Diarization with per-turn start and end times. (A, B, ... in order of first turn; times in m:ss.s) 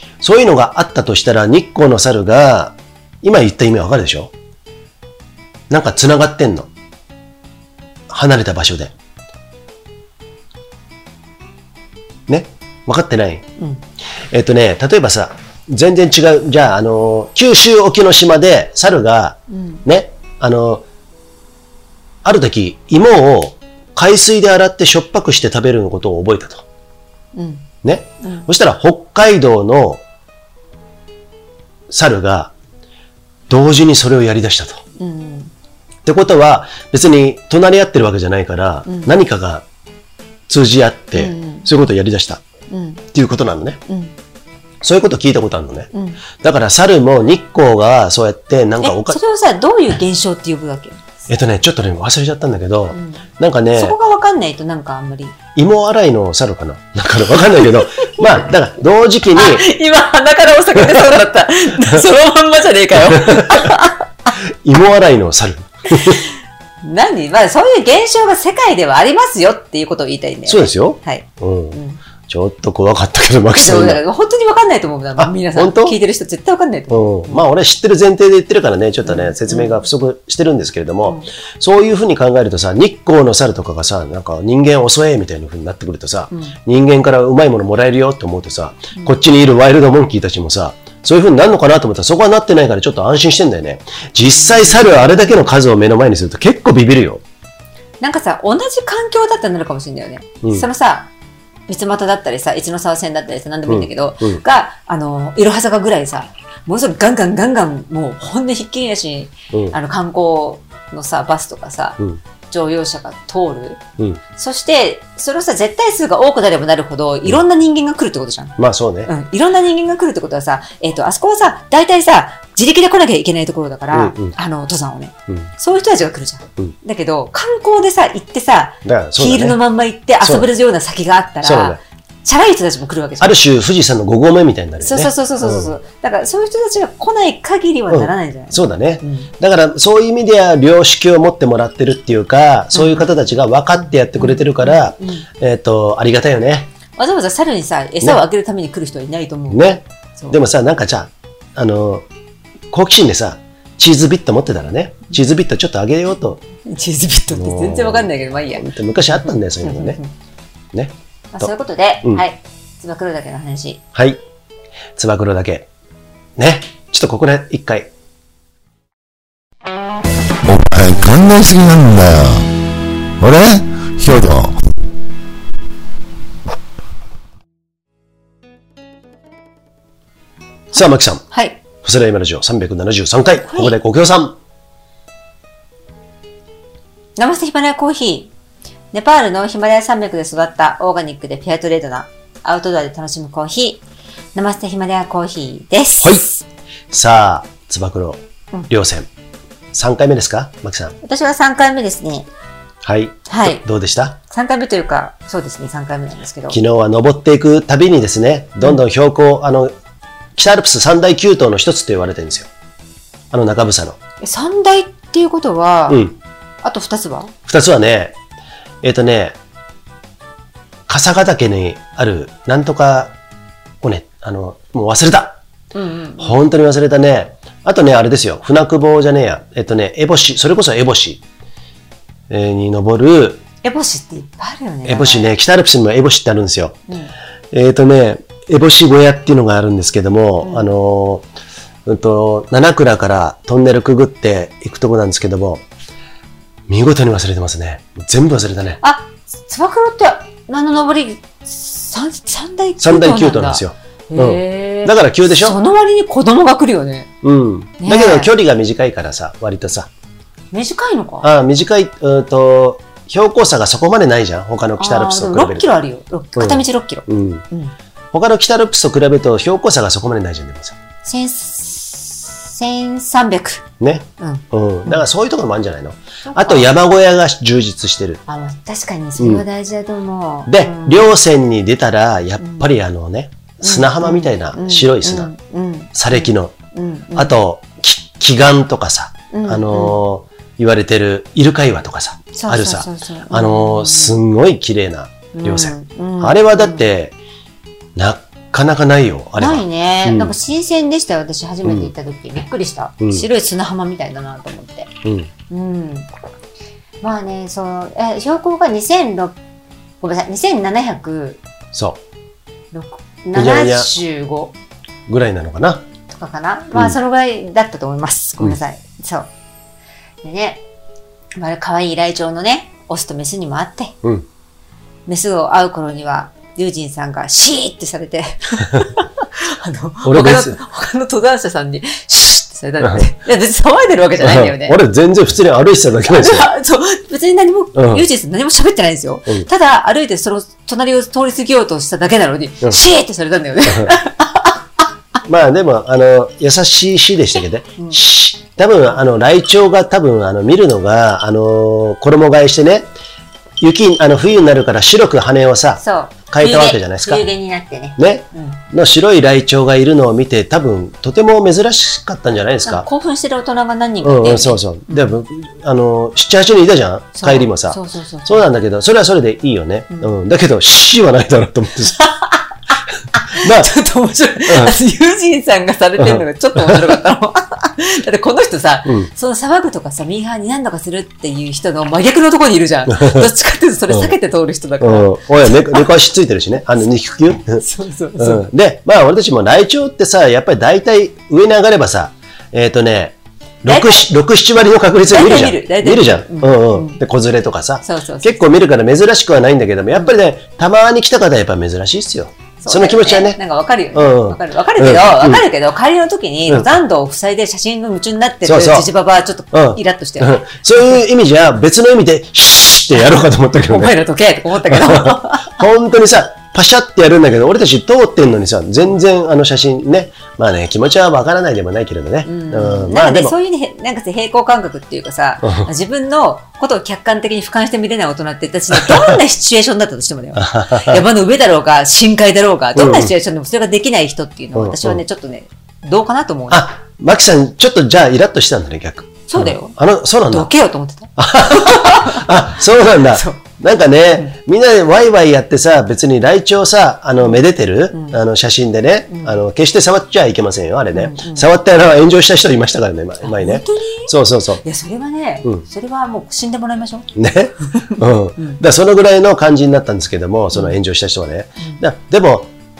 0:00.2-0:04.3 A
0:05.7-0:06.7 A
0:08.1-0:08.9 A
0:12.3-0:13.4 A
0:14.3-0:20.8 A
0:19.5-0:19.8 B
0:22.2-0:26.6 A
0:27.3-0:27.7 B
0:27.8-0:30.0 A
0:28.2-0:28.5 B
0:31.9-0:32.5 A
0:33.5-0:34.8 A
0:35.0-0:35.5 B
0:36.0-0:39.6 A
0:38.8-0:39.1 B
0:40.5-0:42.4 A
0:41.1-0:41.7 B
0:42.7-0:43.0 B
0:43.1-0:43.8 A
0:43.8-0:44.1 B
0:44.8-0:49.2 A
0:45.9-0:46.2 B
0:48.8-0:51.1 B
0:51.3-0:54.0 A
0:52.9-0:55.4 B
0:55.5-0:59.7 A
0:59.3-1:04.3 B
1:03.1-1:03.7 A
1:04.6-1:06.2 A
1:06.8-1:12.0 B
1:10.4-1:14.0 A
1:13.5-1:17.4 B
1:15.2-1:16.0 A
1:16.9-1:37.2 A
1:19.0-1:19.8 B
1:34.3-1:35.1 B
1:38.0-1:41.1 B
1:40.4-1:40.7 A
1:41.7-1:53.8 B
1:43.7-1:44.4 A
1:54.3-2:13.4 B
1:58.6-1:59.1 A
2:03.9-2:04.3 A
2:08.8-2:09.6 A
2:10.2-2:10.5 A
2:11.4-2:11.8 A
2:13.2-2:15.7 A
2:14.8-2:19.3 B
2:17.9-2:26.7 A
2:22.7-2:23.1 B
2:24.2-2:25.2 B
2:27.0-2:30.4 B
2:29.5-2:32.0 A
2:32.7-2:36.4 A
2:36.6-2:38.7 B
2:37.3-2:40.0 A
2:39.2-2:40.1 B
2:40.7-2:41.5 A
2:41.3-2:43.8 B
2:43.9-2:44.2 A
2:45.0-2:45.7 A
2:46.4-2:47.9 A
2:50.4-2:52.5 C
2:53.2-2:54.6 C
3:00.7-3:01.2 A
3:00.7-3:01.6 B
3:01.8-3:04.4 A
3:03.4-3:03.7 B
3:07.2-3:08.3 B
3:08.9-3:13.8 B
3:14.3-3:16.4 B
3:16.0-3:16.2 A
3:16.9-3:19.1 A
3:19.7-3:21.0 A
3:21.0-3:22.3 B
3:22.8-3:24.2 A
3:23.3-3:23.6 B
3:24.2-3:26.6 B
3:26.5-3:29.7 A
3:30.4-3:32.5 A
3:33.3-3:34.0 A
3:34.2-3:36.0 B
3:35.9-3:36.2 A
3:36.6-3:37.3 B
3:37.5-3:38.2 A
3:38.8-3:39.4 A
3:40.9-3:43.1 A
3:43.8-3:45.4 A
3:45.7-3:46.4 B
3:46.2-3:51.2 A
3:52.3-3:53.4 A
3:53.6-3:55.3 B
3:54.8-3:56.8 A
3:57.5-4:01.3 A
4:00.4-4:00.7 B
4:01.8-4:05.6 A
4:06.7-4:08.8 A
4:08.8-4:17.1 B
4:12.8-4:15.6 A
4:17.2-4:19.9 A
4:17.8-4:18.3 B
4:20.5-4:21.3 B
4:21.2-4:25.7 A
4:24.8-4:27.7 B
4:26.4-4:27.4 A
4:28.1-4:30.8 A
4:31.0-4:33.6 B
4:33.8-4:38.2 A
4:34.2-4:35.0 B
4:36.2-4:36.7 B
4:38.3-4:41.1 B
4:39.2-4:39.4 A
4:40.5-4:45.3 A
4:42.4-4:42.7 B
4:43.6-4:47.3 B
4:45.9-4:46.5 A
4:47.1-4:57.1 A
4:49.3-4:50.0 B
4:52.3-4:54.2 B
4:55.3-4:56.8 B
4:58.0-5:00.3 A
4:59.4-5:04.9 B
5:01.6-5:01.9 A
5:03.0-5:03.2 A
5:05.0-5:05.3 A
5:05.5-5:06.1 B
5:07.0-5:09.4 B
5:10.0-5:11.4 B
5:11.7-5:12.0 A
5:12.7-5:14.5 B
5:13.3-5:13.9 A
5:15.1-5:15.8 A
5:16.1-5:19.3 B
5:20.2-5:20.6 B
5:21.4-5:23.9 B
5:25.1-5:34.8 B
5:30.0-5:30.6 A
5:32.8-5:33.1 A
5:34.2-5:36.5 A
5:36.1-5:44.8 B
5:37.7-5:38.0 A
5:45.2-5:52.9 A
5:53.6-5:57.3 A
5:55.8-5:58.6 B
5:58.0-6:02.9 A
6:02.6-6:05.1 B
6:04.0-6:12.0 A
6:07.2-6:08.4 B
6:12.0-6:12.4 B
6:13.1-6:25.9 B
6:13.3-6:13.7 A
6:14.4-6:14.7 A
6:16.0-6:16.8 A
6:22.9-6:23.3 A
6:24.8-6:27.6 A
6:27.6-6:28.5 B
6:28.2-6:43.4 A
6:33.6-6:34.1 B
6:35.1-6:37.0 B
6:37.8-6:38.4 B
6:42.6-6:51.0 B
6:43.9-6:45.4 A
6:46.5-6:46.7 A
6:48.4-6:48.9 A
6:49.5-6:53.9 A
6:53.6-6:55.6 B
6:54.6-7:03.3 A
7:02.2-7:16.7 B
7:05.4-7:05.7 A
7:08.7-7:09.2 A
7:10.4-7:11.0 A
7:12.8-7:13.1 A
7:14.5-7:15.0 A
7:16.5-7:20.5 A
7:19.3-7:23.4 B
7:21.2-7:34.6 A
7:27.9-7:28.2 B
7:29.1-7:29.4 B
7:30.9-7:31.5 B
7:33.2-7:37.1 B
7:37.1-7:42.5 A
7:37.7-7:38.6 B